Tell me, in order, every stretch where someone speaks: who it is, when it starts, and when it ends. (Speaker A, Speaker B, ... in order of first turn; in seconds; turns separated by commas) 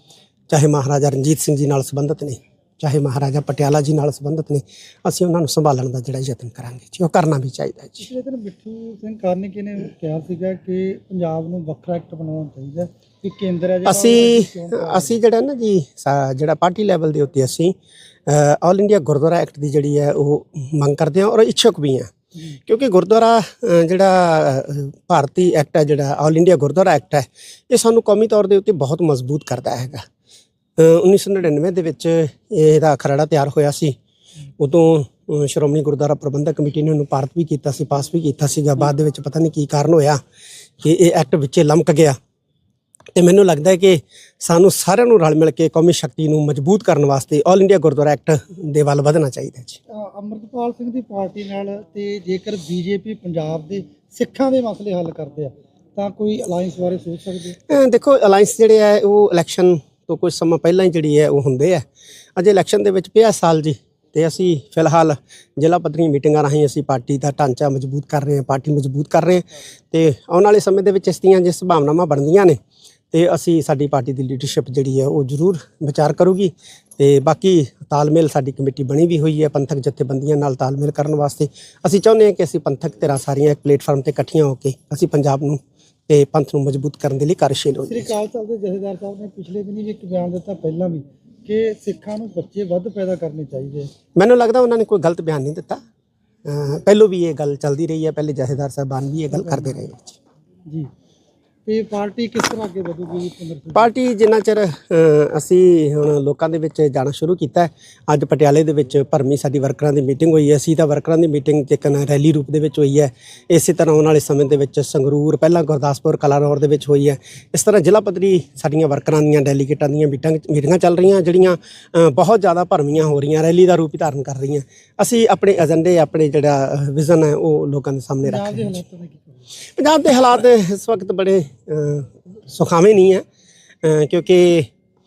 Speaker A: 0.5-8.1, Speaker B: 8.0-15.2, Speaker A: 13.8-17.8, Speaker A: 18.3-22.1, Speaker A: 22.7-30.1, Speaker A: 30.8-34.0, Speaker A: 34.6-40.2, Speaker A: 40.8-42.2, Speaker A: 43.1-49.8, Speaker B: 49.9-57.5, Speaker A: 57.7-61.8, Speaker A: 62.4-72.6, Speaker A: 73.1-88.1, Speaker B: 87.9-93.9, Speaker A: 94.2-95.8, Speaker A: 96.5-100.2, Speaker B: 99.3-99.8, Speaker B: 101.6-103.9, Speaker A: 103.7-128.8, Speaker B: 128.2-129.5, Speaker A: 129.8-133.2, Speaker A: 133.8-134.7